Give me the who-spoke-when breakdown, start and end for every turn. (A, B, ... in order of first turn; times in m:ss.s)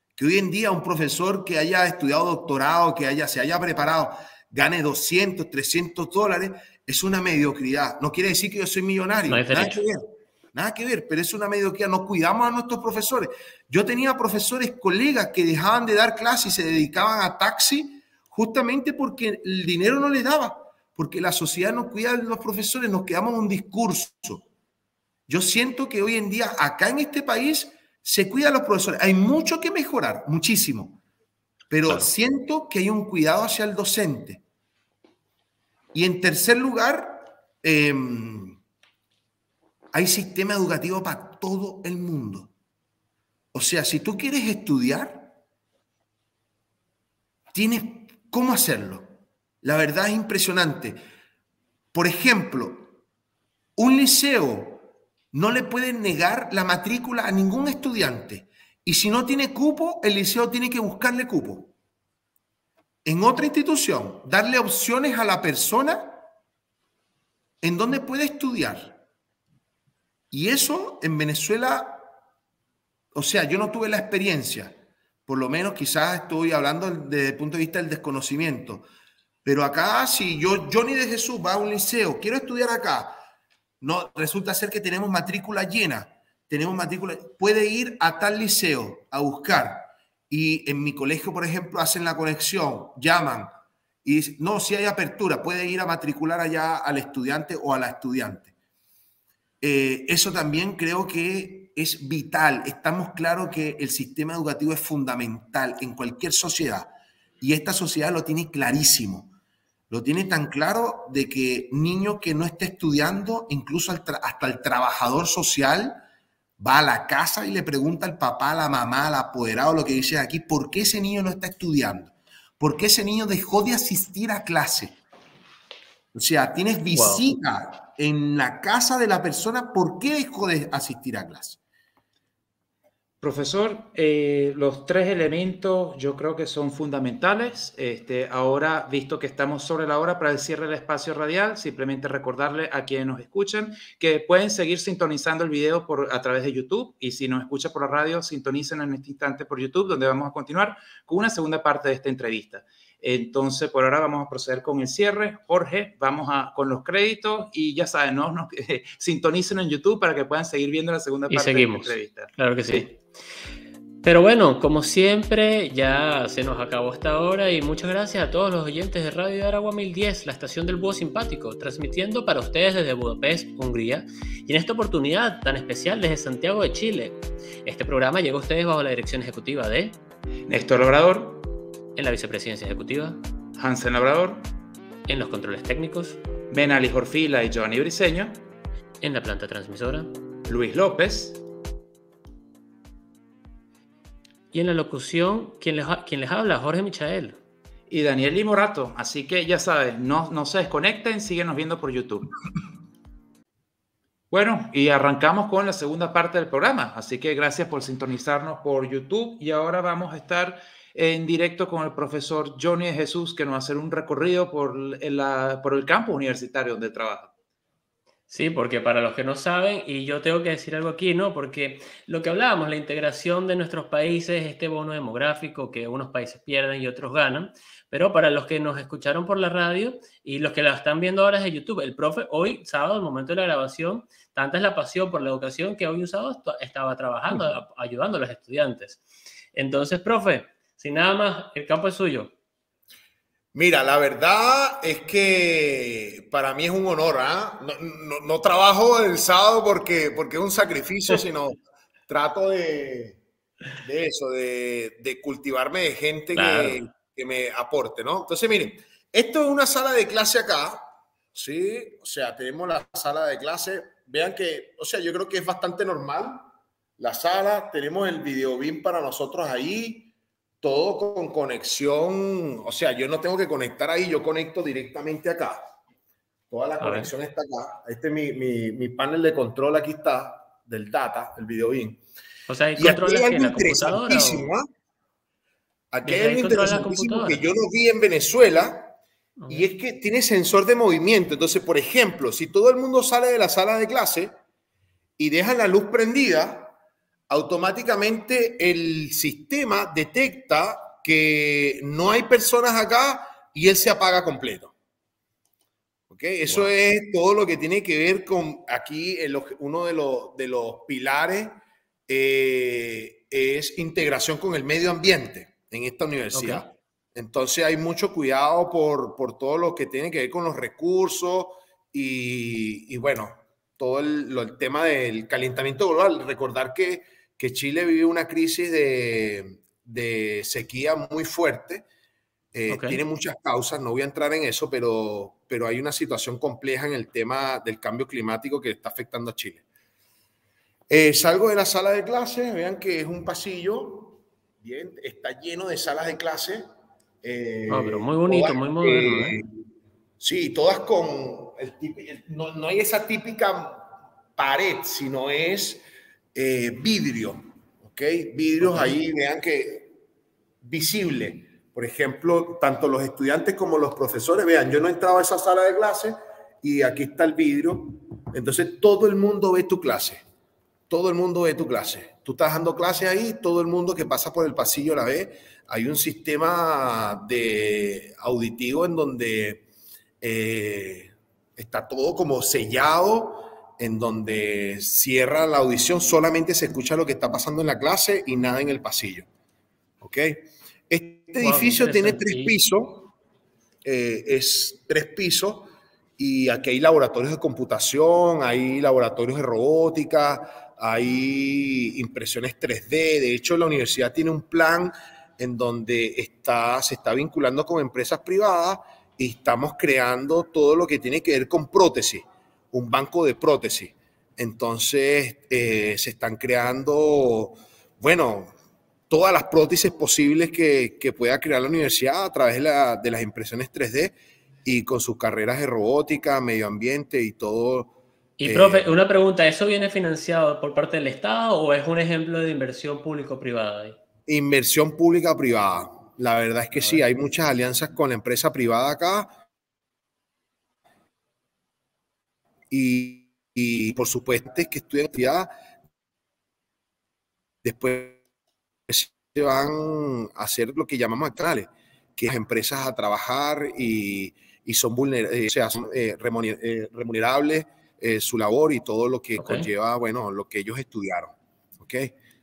0:00.2-0:24.4 A
0:09.3-0:09.8 B
0:25.3-0:31.0 A
0:31.7-0:34.4 A
0:35.9-0:38.6 A
0:39.9-0:42.5 A
0:43.5-0:45.4 A
0:47.5-0:49.1 A
0:49.6-0:51.0 A
0:51.9-0:52.9 A
0:53.8-1:01.7 A
1:03.0-1:06.2 A
1:07.6-1:09.0 A
1:10.3-1:12.0 A
1:13.1-1:18.9 A
1:19.4-1:23.2 A
1:23.8-1:33.5 A
1:34.0-1:38.5 A
1:39.6-1:49.3 A
1:49.9-1:56.0 A
1:56.6-2:05.0 A
2:06.1-2:11.6 A
2:06.9-2:07.4 B
2:13.2-2:42.8 C
2:41.3-2:43.0 B
2:44.0-3:00.0 B
3:00.5-3:01.4 C
3:02.0-3:03.2 B
3:03.6-3:04.4 C
3:05.1-3:06.2 B
3:06.5-3:08.4 C
3:09.0-3:10.1 B
3:10.5-3:11.4 C
3:14.5-3:17.4 B
3:17.9-3:22.3 C
3:24.3-3:37.3 C
3:38.3-3:59.0 B
3:59.5-4:02.3 B
4:03.5-4:13.2 A
4:13.8-4:26.4 A
4:16.4-4:16.8 B
4:27.0-4:35.6 A
4:36.5-4:42.0 A
4:36.8-4:37.1 B
4:42.5-4:44.5 B
4:42.8-4:44.7 A
4:45.9-4:49.0 A
4:46.0-4:47.4 B
4:49.4-4:49.7 B
4:49.5-4:54.3 A
4:55.2-4:56.7 A
4:57.3-5:04.7 A
5:06.1-5:11.6 A
5:12.1-5:31.8 A
5:16.3-5:16.6 B
5:32.5-5:39.6 A
5:32.7-5:33.0 B
5:40.9-5:46.7 A
5:47.2-5:49.4 A
5:47.7-5:49.4 B
5:50.2-5:53.8 A
5:54.4-5:55.8 A
5:56.3-6:00.0 A
5:58.6-5:59.0 B
6:00.6-6:10.2 A
6:10.9-6:19.6 A
6:20.2-6:29.3 A
6:30.0-6:33.1 A
6:31.4-6:32.6 B
6:33.8-6:58.5 A
6:59.1-7:07.9 A
7:08.4-7:14.0 B
7:08.4-7:08.9 A
7:14.3-7:19.3 A
7:22.7-7:25.5 A
7:27.6-7:28.2 A
7:28.9-7:42.2 A
7:39.4-7:39.7 B